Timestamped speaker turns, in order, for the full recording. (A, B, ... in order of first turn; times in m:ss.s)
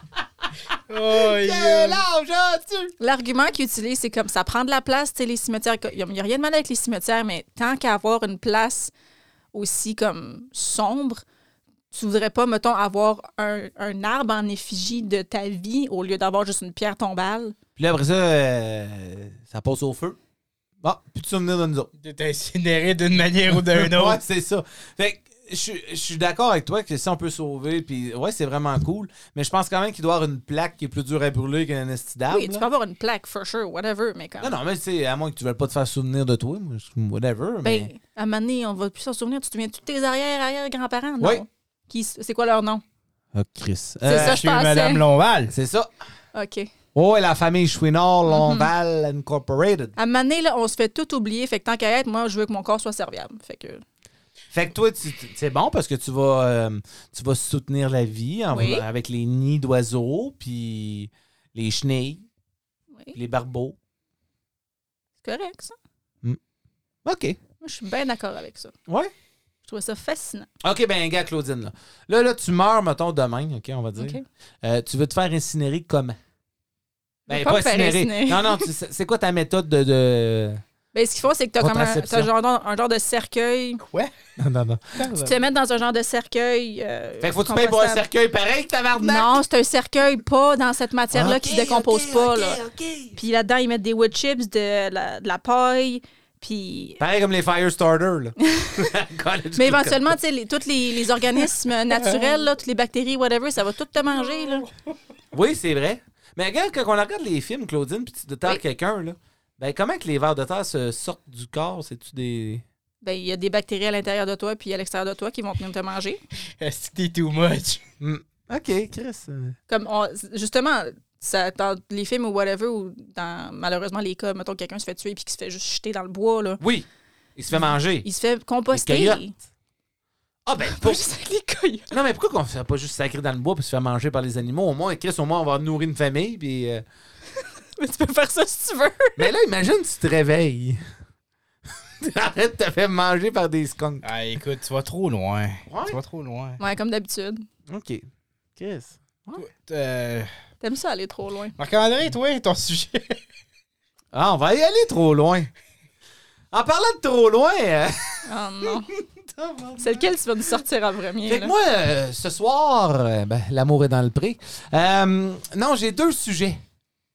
0:00.9-0:02.0 A
0:01.1-0:02.9 B
0:03.0-0:08.9 C
0:09.5-0:11.2 C
0:11.9-0:17.6 C
0:17.8-0:20.2 B
0:20.8-0:21.9 B
0:22.0-0:24.2 A
0:23.5-0:32.6 B
0:32.3-0:34.6 C
0:34.4-0:37.9 B
0:37.6-0:42.8 C
0:43.4-0:44.4 B
0:44.1-0:45.0 C
0:44.1-0:45.5 A
0:45.5-0:45.9 B
0:46.3-0:46.7 C
0:47.0-0:49.9 B
0:48.3-0:48.7 C
0:50.0-0:53.8 C
0:54.5-1:02.2 B
0:58.5-0:58.8 C
1:03.1-1:03.8 B
1:05.2-1:05.8 C
1:07.0-1:07.4 B
1:07.6-1:08.8 C
1:09.6-1:10.5 C
1:10.6-1:16.2 B
1:14.0-1:14.2 C
1:17.3-1:18.7 C
1:17.3-1:20.6 B
1:20.9-1:23.8 C
1:21.6-1:22.3 B
1:23.8-1:24.1 A
1:24.4-1:25.0 B
1:25.0-1:25.3 A
1:25.1-1:28.1 C
1:27.2-1:29.4 B
1:29.0-1:32.6 C
1:31.1-1:33.2 B
1:33.2-1:37.0 C
1:37.0-1:40.1 B
1:38.4-1:38.9 C
1:39.6-1:44.7 C
1:45.3-1:52.6 B
1:53.0-1:56.2 C
1:56.6-1:57.8 A
1:58.0-1:59.6 B
1:59.7-2:06.6 C
2:06.6-2:08.1 B
2:07.5-2:09.3 C
2:08.7-2:09.2 B
2:10.4-2:11.0 B
2:10.7-2:11.9 C
2:11.9-2:16.8 B
2:17.4-2:19.3 C
2:19.2-2:20.8 B
2:22.0-2:24.0 B
2:24.0-2:26.6 A
2:25.7-2:26.0 B
2:26.6-2:27.4 C
2:27.7-2:29.4 B
2:29.4-2:30.3 A
2:30.6-2:31.6 C
2:31.6-2:33.2 A
2:34.1-2:35.5 B
2:36.5-2:40.1 B
2:38.3-2:38.9 C
2:39.8-2:41.5 C
2:41.3-2:46.6 B